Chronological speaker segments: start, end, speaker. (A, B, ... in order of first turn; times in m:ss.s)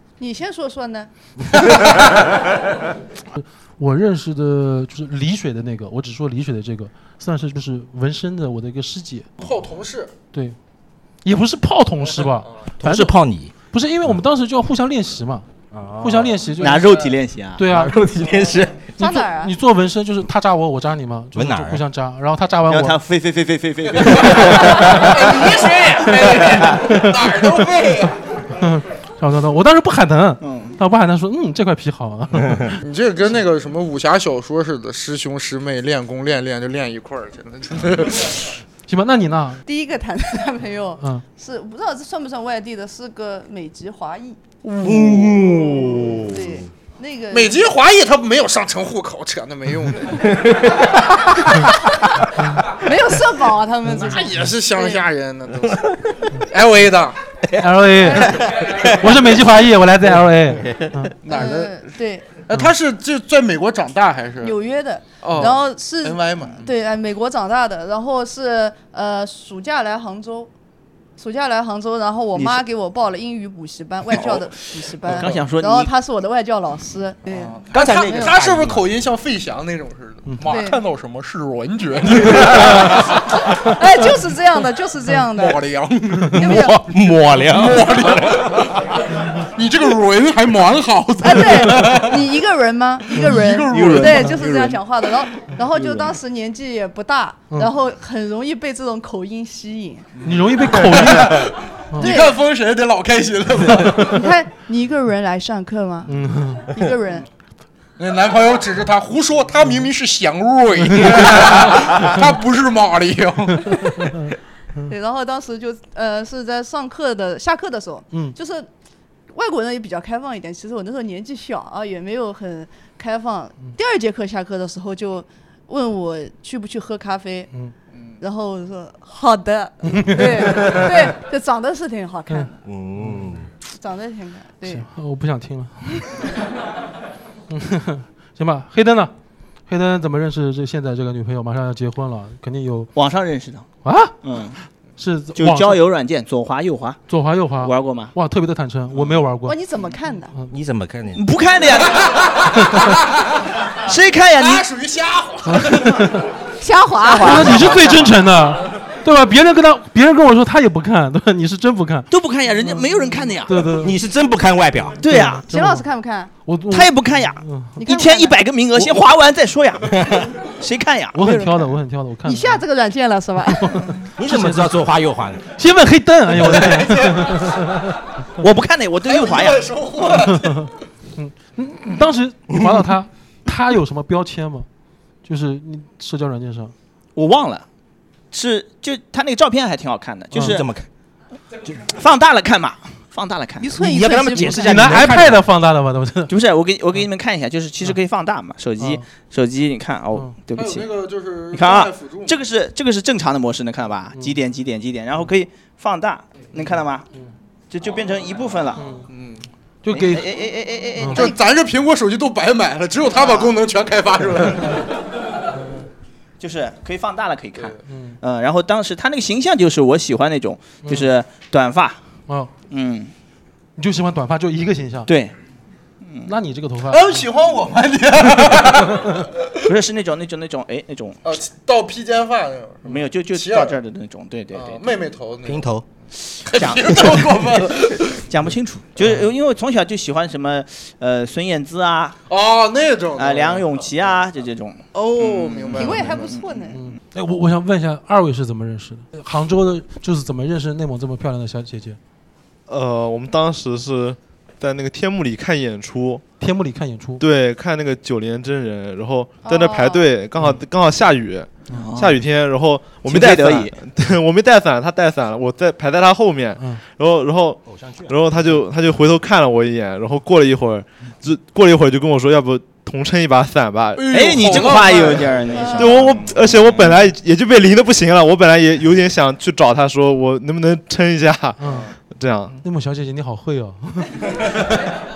0:00.2-0:01.1 A
0:03.3-0:09.3 B
0:09.4-0:10.1 C
0:11.2-0:13.2 B
0:12.8-0:13.5 D
0:13.7-0:15.5 B
0:15.7-0:16.5 D
0:16.0-0:16.9 B
0:16.6-0:17.6 E
0:17.6-0:18.0 B
0:17.7-0:18.9 D
0:19.0-0:19.6 A
0:19.0-0:23.0 B
0:21.4-0:21.8 D
0:22.7-0:25.2 E
0:24.2-0:25.1 B
0:24.8-0:28.2 C
0:28.6-0:32.8 B
0:30.4-0:30.8 E
0:32.8-0:38.5 C
0:38.9-0:39.6 B
0:39.7-0:44.4 A
0:44.6-0:45.6 C
0:44.8-0:46.6 D
0:46.2-0:47.6 A
0:47.3-0:50.5 C
0:52.8-0:55.0 A
0:54.0-0:57.2 C
0:57.6-1:01.2 B
0:58.0-0:58.5 A
1:00.5-1:01.0 D
1:01.2-1:01.8 C
1:01.3-1:02.3 A
1:02.5-1:04.6 C
1:04.4-1:10.5 A
1:05.2-1:06.7 C
1:11.2-1:18.3 A
1:14.1-1:14.4 E
1:15.0-1:15.9 E
1:15.1-1:15.4 C
1:17.3-1:23.5 C
1:17.7-1:18.9 D
1:20.5-1:20.8 A
1:23.6-1:25.6 A
1:25.3-1:32.3 C
1:26.4-1:26.8 A
1:26.6-1:28.5 D
1:31.2-1:40.1 A
1:33.2-1:34.7 C
1:40.2-1:44.3 C
1:40.2-1:42.1 B
1:42.0-1:42.4 A
1:44.0-1:46.2 A
1:46.1-1:46.7 B
1:46.7-1:47.2 A
1:48.0-1:53.9 C
1:54.9-1:58.7 A
1:59.3-2:07.5 A
2:08.2-2:12.6 A
2:09.9-2:10.9 B
2:12.7-2:13.5 D
2:13.0-2:13.3 B
2:13.8-2:14.9 A
2:14.6-2:16.2 B
2:17.5-2:19.1 B
2:19.7-2:22.9 B
2:23.0-2:23.7 E
2:23.8-2:24.2 B
2:24.2-2:24.6 E
2:25.0-2:25.8 B
2:25.4-2:27.0 E
2:27.1-2:29.6 B
2:27.6-2:28.1 E
2:29.5-2:30.4 A
2:30.5-2:31.2 D
2:31.2-2:32.4 E
2:33.8-2:34.7 E
2:34.4-2:36.1 C
2:35.5-2:36.3 B
2:36.6-2:37.8 A
2:37.1-2:42.1 B
2:42.1-2:43.7 E
2:43.5-2:44.0 B
2:43.8-2:45.0 D
2:45.0-2:45.4 E
2:45.0-2:45.8 B
2:45.5-2:46.3 A
2:46.4-2:47.8 B
2:46.7-2:51.7 E
2:47.8-2:48.4 A
2:49.9-2:50.3 D
2:51.1-2:52.6 B
2:52.2-2:54.0 A
2:53.6-2:54.7 B
2:54.2-2:55.4 D
2:55.6-2:58.0 B
2:56.4-2:57.5 C
2:58.4-2:59.7 E
2:59.0-3:00.7 C
3:00.2-3:04.7 B
3:05.2-3:06.7 B
3:07.2-3:07.6 E
3:08.3-3:10.7 E
3:10.3-3:10.6 B
3:10.4-3:10.9 D
3:11.8-3:13.7 E
3:13.6-3:15.1 A
3:13.8-3:15.4 D
3:14.5-3:16.3 B
3:16.3-3:20.9 E
3:20.6-3:22.4 C
3:21.5-3:27.1 E
3:27.7-3:28.8 E
3:28.8-3:29.1 B
3:29.1-3:29.5 C
3:29.8-3:30.3 B
3:29.9-3:31.3 E
3:31.2-3:34.8 C
3:33.1-3:33.5 E
3:36.4-3:42.0 E
3:37.9-3:38.2 B
3:42.7-3:43.1 E
3:43.8-3:45.1 B
3:45.1-3:45.3 E
3:46.2-3:47.0 B
3:46.9-3:49.1 C
3:49.6-3:51.2 E
3:51.2-3:53.8 C
3:52.9-3:54.8 E
3:54.5-3:55.7 C
3:55.4-3:55.9 D
3:56.5-3:58.2 C
3:56.6-3:57.2 E
3:56.6-3:57.2 D
3:58.3-4:02.2 E
3:59.0-3:59.3 B
4:02.3-4:04.2 C
4:03.2-4:06.4 E
4:04.9-4:06.5 C
4:05.7-4:06.8 A
4:06.7-4:12.0 B
4:12.7-4:16.2 F
4:16.4-4:17.2 B
4:17.2-4:34.2 F
4:19.4-4:20.0 A
4:21.7-4:22.2 E
4:23.0-4:23.8 E
4:27.7-4:28.3 D
4:34.0-4:35.7 C
4:34.1-4:36.4 E
4:35.6-4:35.9 A
4:35.8-4:41.6 F
4:41.6-4:41.9 B
4:42.1-4:42.6 F
4:42.5-4:44.3 B